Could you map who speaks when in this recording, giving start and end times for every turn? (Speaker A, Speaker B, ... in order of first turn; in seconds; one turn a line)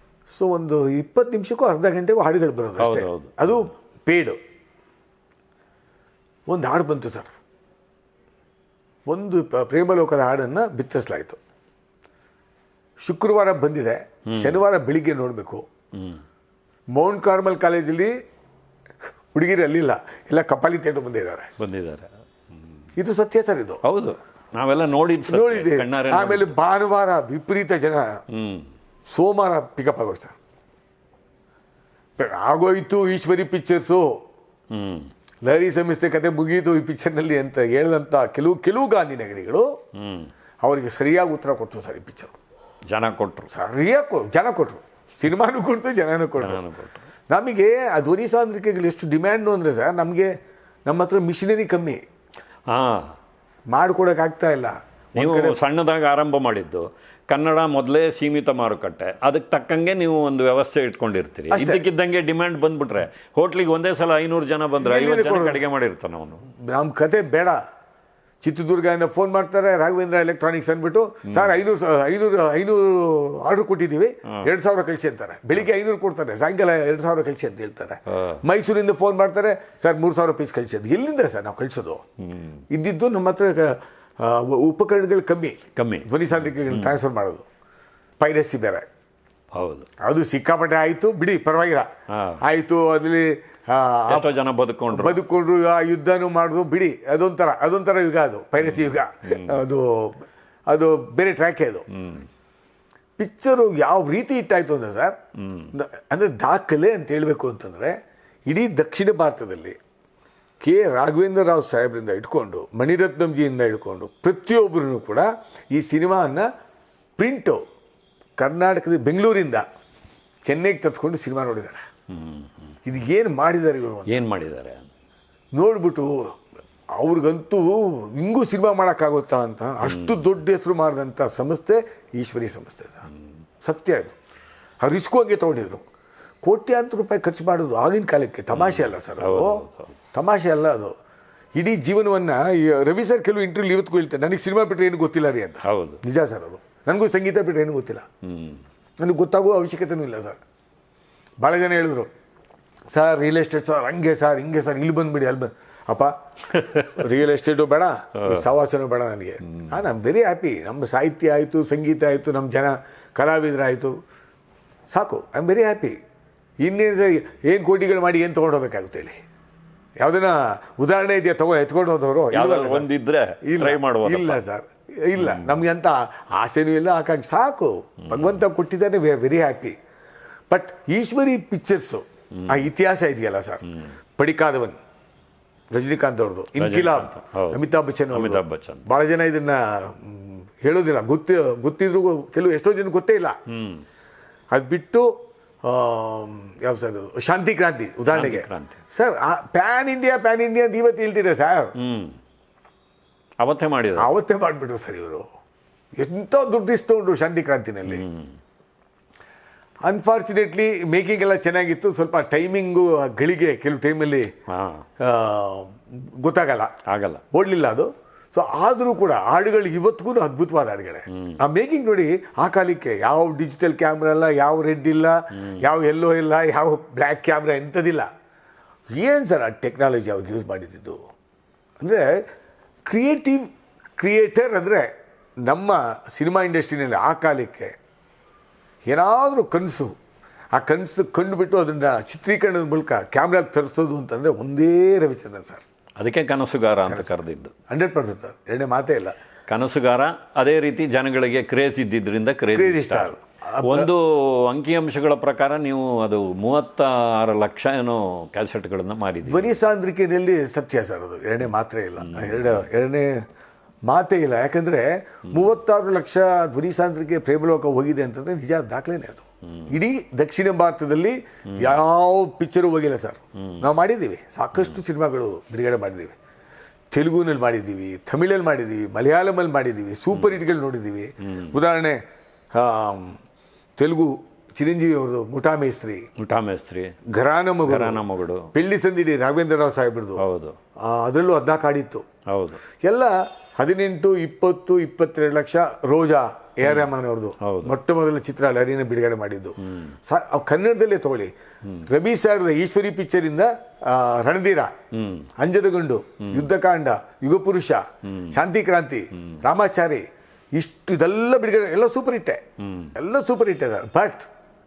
Speaker A: 0.3-4.4
Speaker B: 2.8-3.7
Speaker A: 6.5-7.3
Speaker A: 9.1-11.4
Speaker A: 13.1-15.7
Speaker B: 14.3-14.6
Speaker B: 15.9-16.2
Speaker A: 16.9-18.1
Speaker A: 19.3-21.5
Speaker B: 21.6-22.1
Speaker A: 23.0-23.8
Speaker B: 23.8-26.6
Speaker A: 25.3-28.2
Speaker B: 28.3-28.7
Speaker A: 29.1-30.4
Speaker A: 32.2-34.2
Speaker B: 34.7-35.1
Speaker A: 35.4-39.7
Speaker B: 40.0-40.3
Speaker A: 40.6-42.3
Speaker B: 42.9-43.5
Speaker A: 43.5-46.6
Speaker B: 46.4-47.1
Speaker A: 47.3-50.3
Speaker A: 50.9-52.0
Speaker B: 52.7-53.2
Speaker A: 53.7-55.6
Speaker B: 55.2-66.5
Speaker A: 61.5-61.8
Speaker A: 64.8-65.7
Speaker A: 66.6-67.6
Speaker A: 68.4-82.0
Speaker B: 71.3-71.6
Speaker B: 82.2-82.6
Speaker A: 82.7-87.5
Speaker B: 85.8-87.0
Speaker A: 88.2-88.8
Speaker B: 89.5-89.9
Speaker A: 90.0-91.9
Speaker B: 92.1-92.4
Speaker A: 92.4-94.3
Speaker B: 94.1-95.2
Speaker A: 94.9-101.9
Speaker B: 98.6-99.6
Speaker B: 101.9-102.3
Speaker A: 103.2-105.2
Speaker B: 105.4-105.7
Speaker A: 105.7-109.8
Speaker A: 110.6-116.5
Speaker A: 117.2-117.6
Speaker A: 118.4-119.7
Speaker A: 120.5-121.8
Speaker B: 122.1-122.7
Speaker A: 122.9-124.2
Speaker B: 124.1-124.9
Speaker A: 125.6-126.3
Speaker A: 127.0-133.1
Speaker B: 129.8-130.3
Speaker A: 133.6-134.2
Speaker A: 134.8-135.8
Speaker A: 136.4-140.9
Speaker B: 138.5-140.0
Speaker A: 141.6-148.1
Speaker B: 145.6-146.0
Speaker B: 148.2-148.6
Speaker A: 149.0-150.4
Speaker A: 151.4-152.1
Speaker A: 152.9-163.9
Speaker B: 156.5-157.1
Speaker B: 158.2-158.5
Speaker A: 164.9-166.0
Speaker A: 166.6-169.2
Speaker A: 170.0-172.9
Speaker B: 172.3-174.4
Speaker A: 173.4-179.8
Speaker B: 175.2-175.6
Speaker B: 178.1-178.4
Speaker A: 180.5-184.8
Speaker B: 182.4-182.7
Speaker B: 183.7-183.9
Speaker A: 185.7-193.4
Speaker B: 186.6-188.9
Speaker B: 193.5-193.8
Speaker A: 194.5-195.1
Speaker A: 195.6-201.8
Speaker B: 198.1-198.8
Speaker B: 201.8-202.2
Speaker B: 203.4-204.1
Speaker A: 204.0-205.3
Speaker A: 206.0-208.1
Speaker B: 207.9-208.4
Speaker A: 209.8-214.3
Speaker B: 214.5-214.8
Speaker A: 215.0-216.8
Speaker B: 216.9-217.2
Speaker A: 217.3-228.1
Speaker B: 221.1-221.4
Speaker A: 228.9-231.0
Speaker A: 231.8-232.2
Speaker A: 232.8-234.9
Speaker A: 235.4-237.7
Speaker A: 238.9-239.9
Speaker A: 240.6-245.6
Speaker B: 246.0-247.5
Speaker A: 246.9-247.1
Speaker A: 247.7-249.2
Speaker B: 249.5-259.5
Speaker A: 252.5-253.9
Speaker A: 259.2-263.2
Speaker B: 262.0-262.7
Speaker A: 263.9-276.2
Speaker B: 269.5-269.8
Speaker B: 271.5-271.8
Speaker B: 273.4-273.7
Speaker A: 276.9-282.0
Speaker B: 280.1-280.4
Speaker B: 281.3-281.6
Speaker A: 282.5-283.2
Speaker A: 283.8-286.1
Speaker B: 286.2-286.9
Speaker A: 287.1-290.2
Speaker B: 287.6-288.5
Speaker B: 290.2-290.6
Speaker A: 290.8-292.1
Speaker B: 292.3-292.6
Speaker A: 292.8-301.3
Speaker B: 296.6-296.9
Speaker B: 297.4-297.8
Speaker B: 299.6-300.0
Speaker A: 301.8-304.7
Speaker B: 304.9-305.3
Speaker A: 305.4-312.4
Speaker B: 308.1-308.4
Speaker B: 312.6-312.9
Speaker A: 312.9-314.3